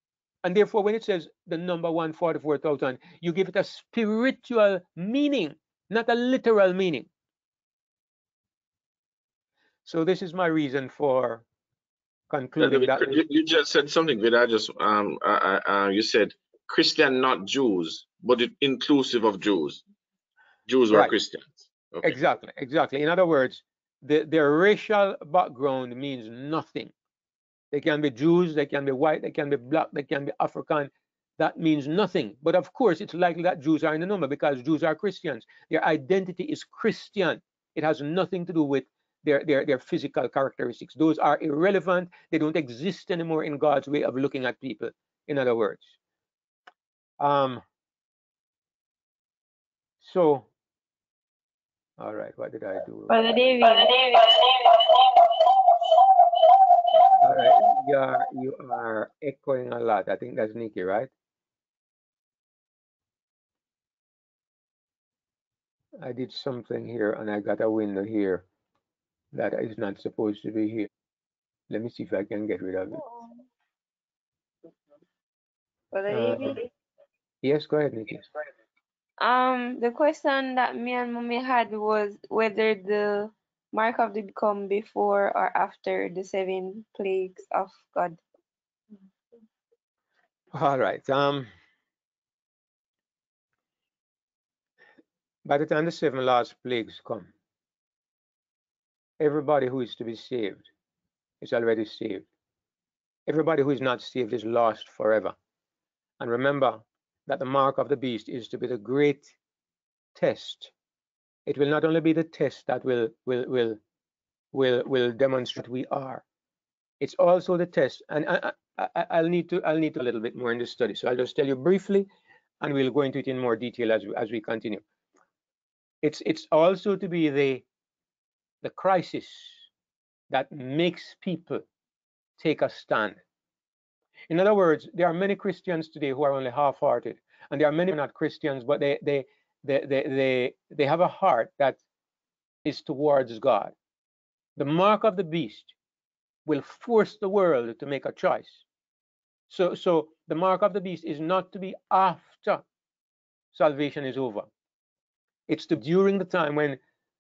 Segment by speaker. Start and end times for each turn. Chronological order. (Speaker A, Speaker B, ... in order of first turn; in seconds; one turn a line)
Speaker A: 0.4-7.1
Speaker A: 9.9-11.4
Speaker A: 12.3-13.3
Speaker B: 12.6-19.8
Speaker B: 20.7-22.2
Speaker A: 22.0-26.9
Speaker A: 27.7-46.0
Speaker A: 47.2-47.6
Speaker A: 50.0-50.5
Speaker A: 52.0-53.4
Speaker C: 53.1-55.0
Speaker A: 57.2-61.1
Speaker A: 66.0-68.5
Speaker A: 69.3-70.9
Speaker A: 71.7-73.0
Speaker C: 73.0-73.3
Speaker C: 75.9-76.7
Speaker A: 76.1-76.6
Speaker A: 77.4-78.2
Speaker C: 79.2-88.2
Speaker A: 90.5-91.5
Speaker A: 95.5-97.3
Speaker A: 99.2-100.7
Speaker A: 101.4-102.2
Speaker A: 103.3-105.3
Speaker A: 106.2-109.3
Speaker A: 110.2-110.7
Speaker A: 111.5-113.8
Speaker A: 114.5-116.2
Speaker A: 117.0-122.1
Speaker A: 122.6-124.8
Speaker A: 126.0-127.6
Speaker A: 128.6-129.6
Speaker A: 130.3-131.7
Speaker A: 132.4-133.2
Speaker A: 134.3-141.8
Speaker A: 142.7-143.7
Speaker A: 144.6-145.7
Speaker A: 146.5-148.6
Speaker A: 149.5-152.6
Speaker A: 153.5-154.5
Speaker A: 155.5-156.8